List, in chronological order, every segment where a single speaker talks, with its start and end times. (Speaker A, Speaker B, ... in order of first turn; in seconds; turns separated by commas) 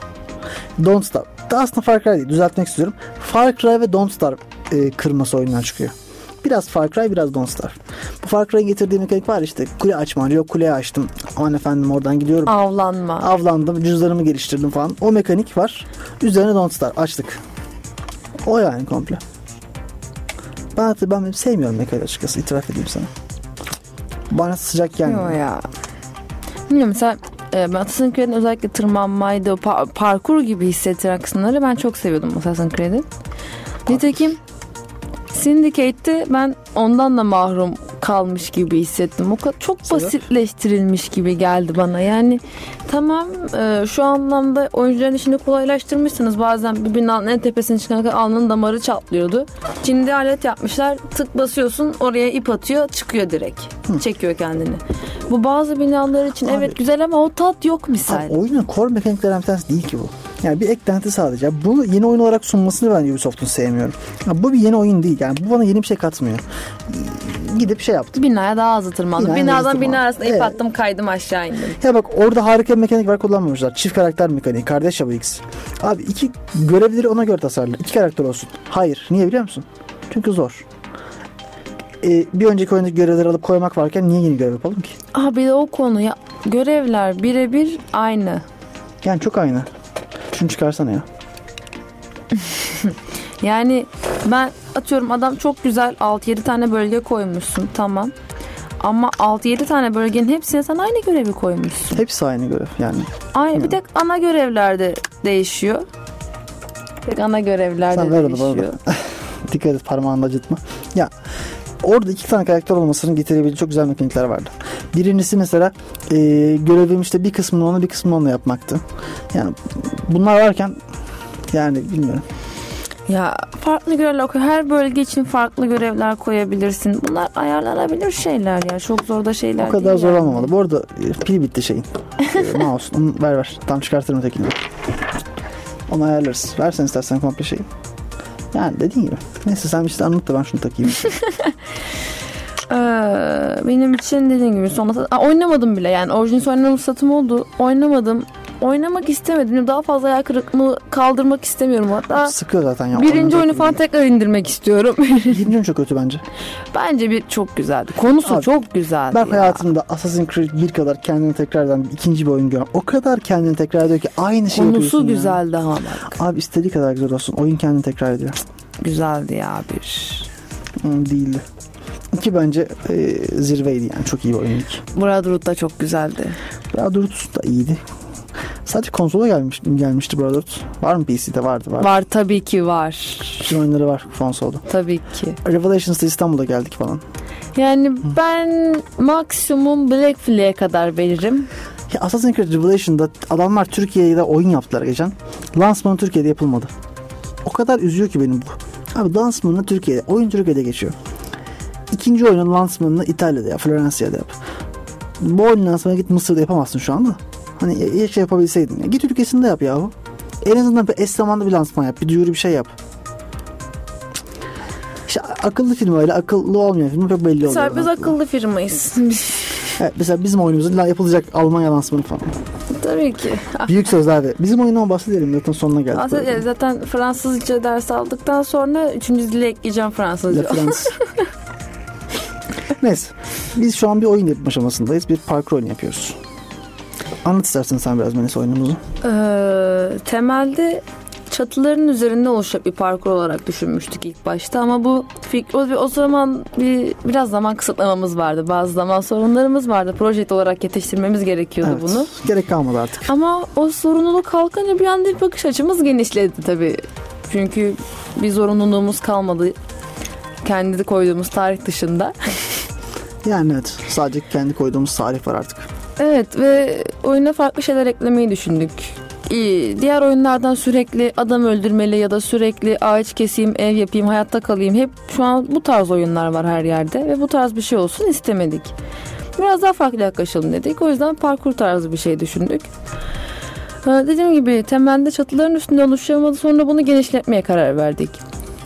Speaker A: 0.8-12.5, Speaker B: 12.5-13.3, Speaker A: 13.2-17.4, Speaker A: 18.4-19.2, Speaker A: 20.7-23.1, Speaker A: 24.3-25.4, Speaker B: 25.0-25.7, Speaker B: 26.7-33.0, Speaker B: 33.9-34.4, Speaker A: 33.9-34.1, Speaker B: 35.3-58.4, Speaker A: 39.9-40.2, Speaker A: 56.5-56.8, Speaker A: 58.0-68.2, Speaker B: 68.1-71.8, Speaker A: 69.2-70.6, Speaker A: 71.8-80.7, Speaker A: 82.0-85.0, Speaker B: 85.1-88.4, Speaker A: 89.0-89.7, Speaker A: 90.3-91.0, Speaker B: 92.7-98.1, Speaker B: 98.8-102.0, Speaker A: 101.9-103.8, Speaker B: 103.3-105.8, Speaker B: 107.0-108.8, Speaker A: 107.9-111.1, Speaker A: 111.8-120.8, Speaker A: 121.5-122.2, Speaker B: 123.1-130.5, Speaker A: 129.6-134.6, Speaker A: 135.9-137.7, Speaker A: 138.5-141.1, Speaker B: 142.7-152.3, Speaker A: 152.2-153.8, Speaker B: 152.9-155.4, Speaker A: 155.3-156.2, Speaker B: 156.7-159.6, Speaker A: 158.2-158.5, Speaker A: 159.1-165.4, Speaker B: 164.5-166.2, Speaker A: 166.1-168.4, Speaker B: 168.8-170.3, Speaker A: 170.8-171.4, Speaker A: 172.1-174.8, Speaker B: 174.9-176.4, Speaker A: 176.7-177.8, Speaker A: 178.6-181.9, Speaker B: 181.8-183.5, Speaker A: 183.4-184.6, Speaker B: 184.7-185.4, Speaker A: 185.4-187.0, Speaker B: 187.6-191.5, Speaker A: 191.9-196.7, Speaker A: 197.4-200.9, Speaker A: 201.9-204.4, Speaker A: 205.2-212.7, Speaker A: 215.1-218.2, Speaker B: 217.4-219.7, Speaker A: 219.8-222.3, Speaker B: 222.7-223.7, Speaker A: 223.7-226.4, Speaker B: 225.9-231.1, Speaker A: 230.3-230.9, Speaker A: 232.8-236.2, Speaker A: 237.2-238.8, Speaker B: 239.0-252.1, Speaker A: 251.6-253.1, Speaker B: 253.1-259.6, Speaker B: 260.4-262.4, Speaker A: 263.2-265.7, Speaker B: 266.0-278.7, Speaker B: 279.4-282.7, Speaker B: 283.8-288.2